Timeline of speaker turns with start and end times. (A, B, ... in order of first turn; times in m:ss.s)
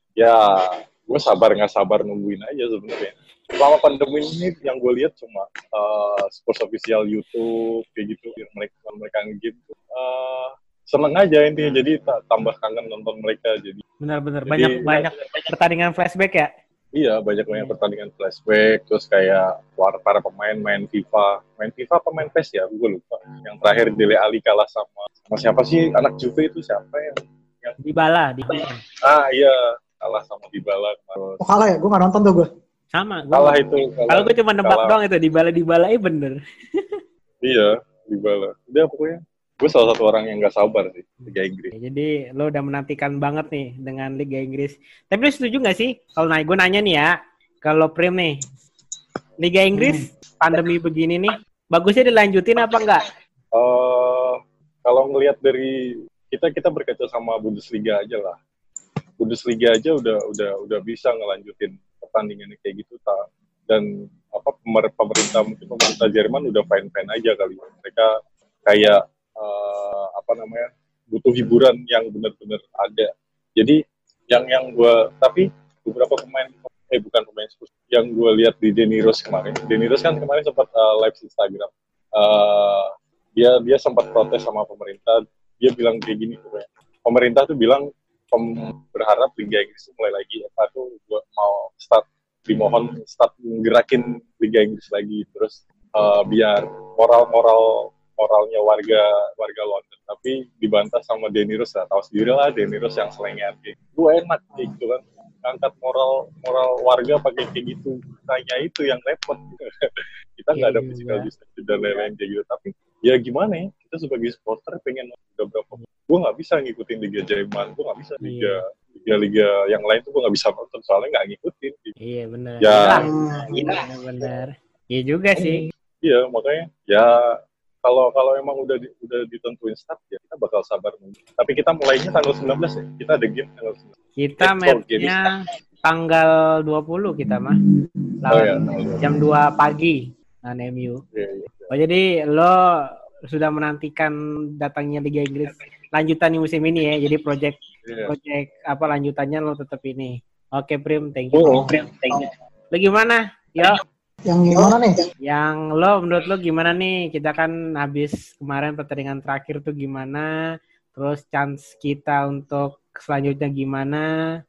0:00.2-0:13.8 A
0:14.0-0:16.5 B
0:14.5-0:15.0 A
0:16.9-0:27.8 A
0:27.8-0:28.8 B
0:28.6-0:31.4 A
0:31.4-0:32.5 C
0:33.0-0:37.0 B
0:33.3-0:35.0 A
0:37.4-0:41.7 A
0:41.7-0:48.4 B
0:49.4-0:53.0 B
0:49.8-0:50.0 C
0:53.5-0:55.7 A
0:56.3-0:58.4 A
0:59.2-1:08.1 A
1:08.6-1:13.8 A
1:14.3-1:49.8 A
1:50.4-2:01.9 A
1:50.5-1:51.3 B
1:58.2-1:58.6 B
2:02.0-2:05.6 B
2:02.6-2:03.1 A
2:02.9-2:03.8 C
2:05.4-2:07.1 A
2:07.8-2:15.2 A
2:14.2-2:15.3 B
2:15.8-2:17.6 B
2:18.2-2:21.0 B
2:18.3-2:19.0 A
2:21.1-2:21.7 A
2:21.7-2:33.8 B
2:27.8-2:28.1 A
2:31.3-2:31.7 A
2:34.3-2:35.0 C
2:35.2-2:40.3 B
2:40.9-2:44.0 B